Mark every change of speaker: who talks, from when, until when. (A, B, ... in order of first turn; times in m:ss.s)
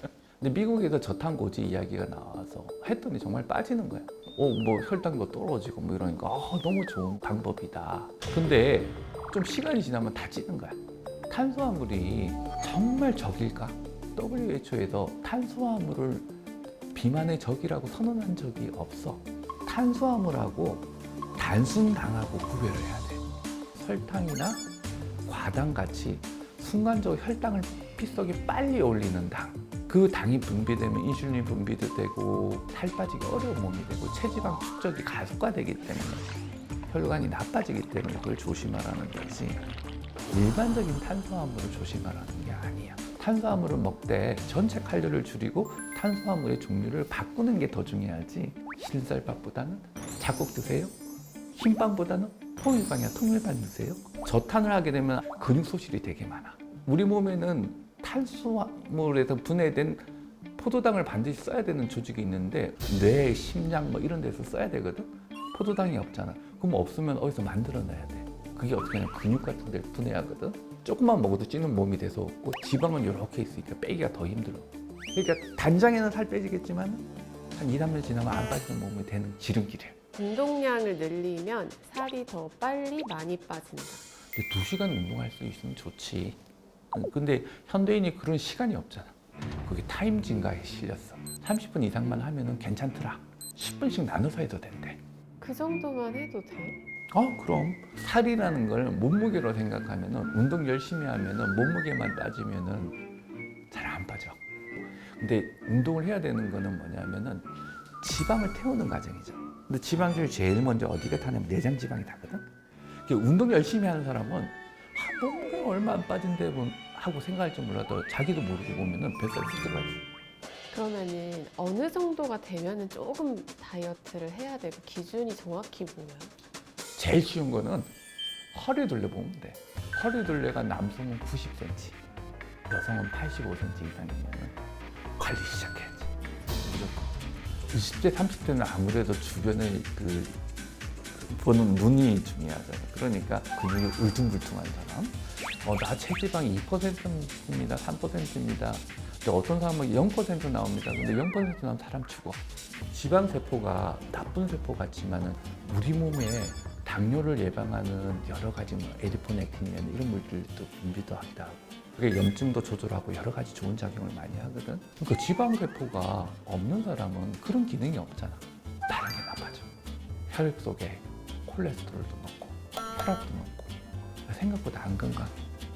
0:00.4-0:16.3 A
0:16.9-0:24.7 A
0:25.2-0:36.3 A
0:36.9-0:39.6 A
0:40.3-0:51.0 A
0:51.5-1:20.0 A
1:20.1-1:24.0 B
1:24.3-1:26.4 A
1:26.9-1:35.0 A
1:35.4-1:36.8 B
1:37.1-1:43.0 A
1:43.7-1:44.4 A
1:45.0-1:52.4 A
1:53.0-2:00.0 A
2:00.7-2:06.3 B
2:07.0-2:07.9 A
2:08.5-2:12.0 A
2:12.7-2:14.6 A
2:15.2-2:17.2 A
2:17.7-2:20.4 A
2:21.1-2:49.7 A
2:50.3-2:55.4 A